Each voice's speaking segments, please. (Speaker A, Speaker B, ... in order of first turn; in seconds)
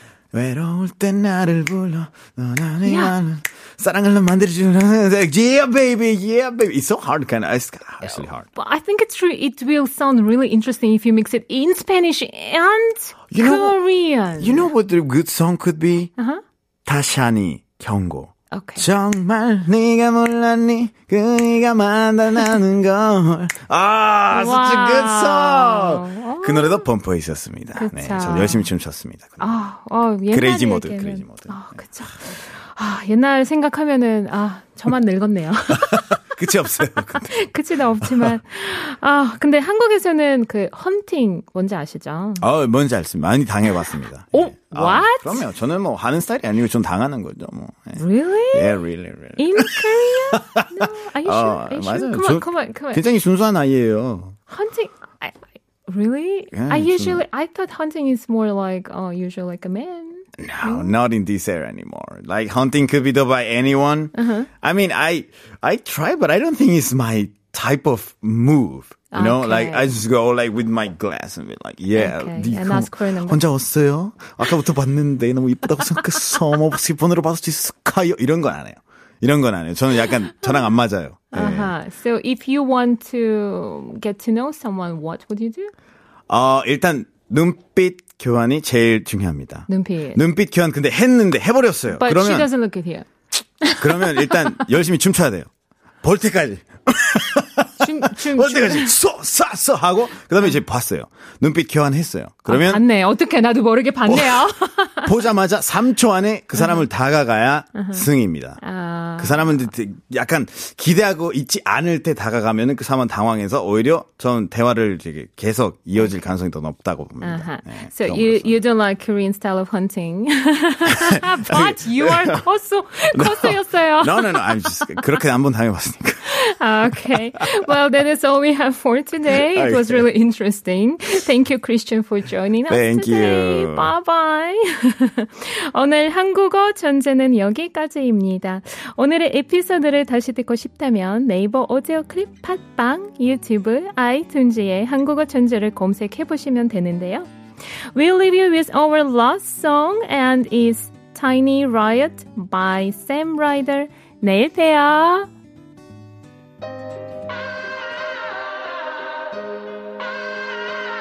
Speaker A: 0.3-8.5, 13.3-16.1, 16.9-29.6, 30.3-31.7, 35.8-37.5, 38.0-38.4, 42.4-48.0, 48.5-50.6, 51.2-54.4, 56.5-57.2, 60.4-81.8, 86.3-92.5, 93.8-95.5, 96.0-102.8, 104.1-108.6, 109.2-118.6, 120.9-122.5, 123.1-126.2, 129.3-130.1, 132.7-133.9
Speaker B: 2.9-3.2, 8.0-14.7, 16.2-16.4, 18.5-18.9, 24.3-26.9, 27.8-28.7, 29.4-36.2, 37.3-42.5, 44.3-45.4, 48.0-48.8, 49.4-53.0, 54.5-60.9, 64.2-64.5, 69.1-69.9, 71.9-73.4, 81.3-85.7, 89.7-90.2, 92.0-93.1, 93.6-94.6, 97.8-99.0, 102.5-105.1, 106.6-106.8, 107.8-108.1, 108.6-109.6, 117.2-125.2, 126.3-147.3, 147.9-155.3